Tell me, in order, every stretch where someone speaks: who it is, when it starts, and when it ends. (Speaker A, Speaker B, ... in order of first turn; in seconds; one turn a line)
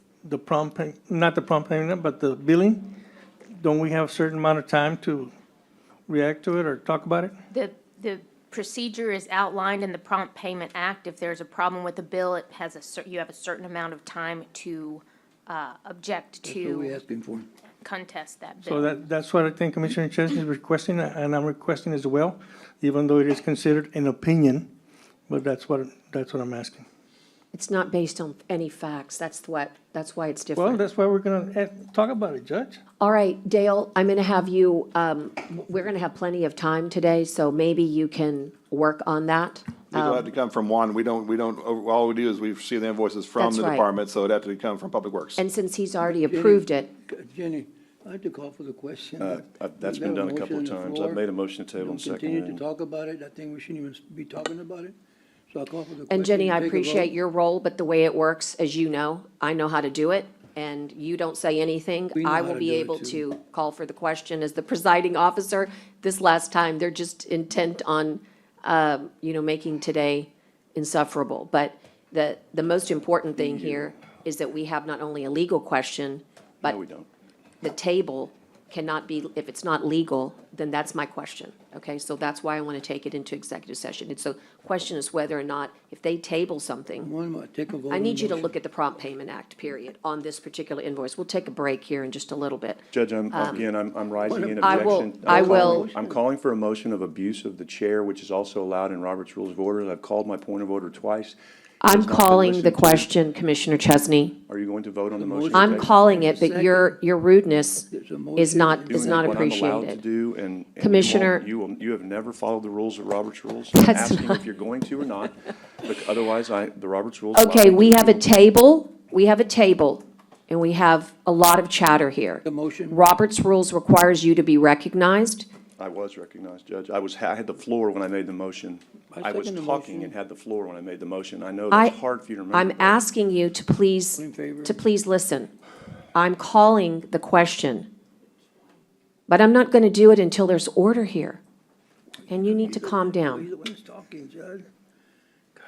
Speaker A: 0.2-3.0
Speaker A: 3.6-5.3
Speaker A: 6.1-7.3
Speaker B: 7.5-17.0
Speaker C: 16.4-17.5
Speaker B: 17.8-18.9
Speaker A: 18.6-24.7
Speaker A: 25.3-26.8
Speaker D: 27.5-30.8
Speaker A: 30.6-32.8
Speaker D: 33.0-40.3
Speaker E: 39.9-45.4
Speaker D: 43.4-43.9
Speaker D: 45.4-46.9
Speaker C: 46.0-51.2
Speaker F: 49.2-52.6
Speaker C: 51.8-55.0
Speaker C: 55.5-57.1
Speaker D: 56.1-76.8
Speaker C: 62.1-63.2
Speaker F: 73.5-73.8
Speaker F: 76.6-77.1
Speaker D: 77.6-87.1
Speaker C: 87.0-88.5
Speaker D: 87.9-93.6
Speaker F: 92.9-103.1
Speaker C: 94.3-96.1
Speaker D: 94.6-95.9
Speaker D: 101.8-104.4
Speaker F: 104.5-105.9
Speaker C: 105.2-107.0
Speaker D: 105.5-110.0
Speaker C: 107.9-109.5
Speaker F: 108.9-118.2
Speaker D: 110.8-111.5
Speaker D: 113.7-114.4
Speaker D: 117.3-125.5
Speaker C: 122.4-123.0
Speaker F: 125.8-133.0
Speaker C: 129.1-130.1
Speaker D: 132.5-135.5
Speaker C: 134.1-134.8
Speaker D: 136.1-137.9
Speaker D: 139.3-141.4
Speaker D: 142.3-143.4
Speaker C: 142.6-144.7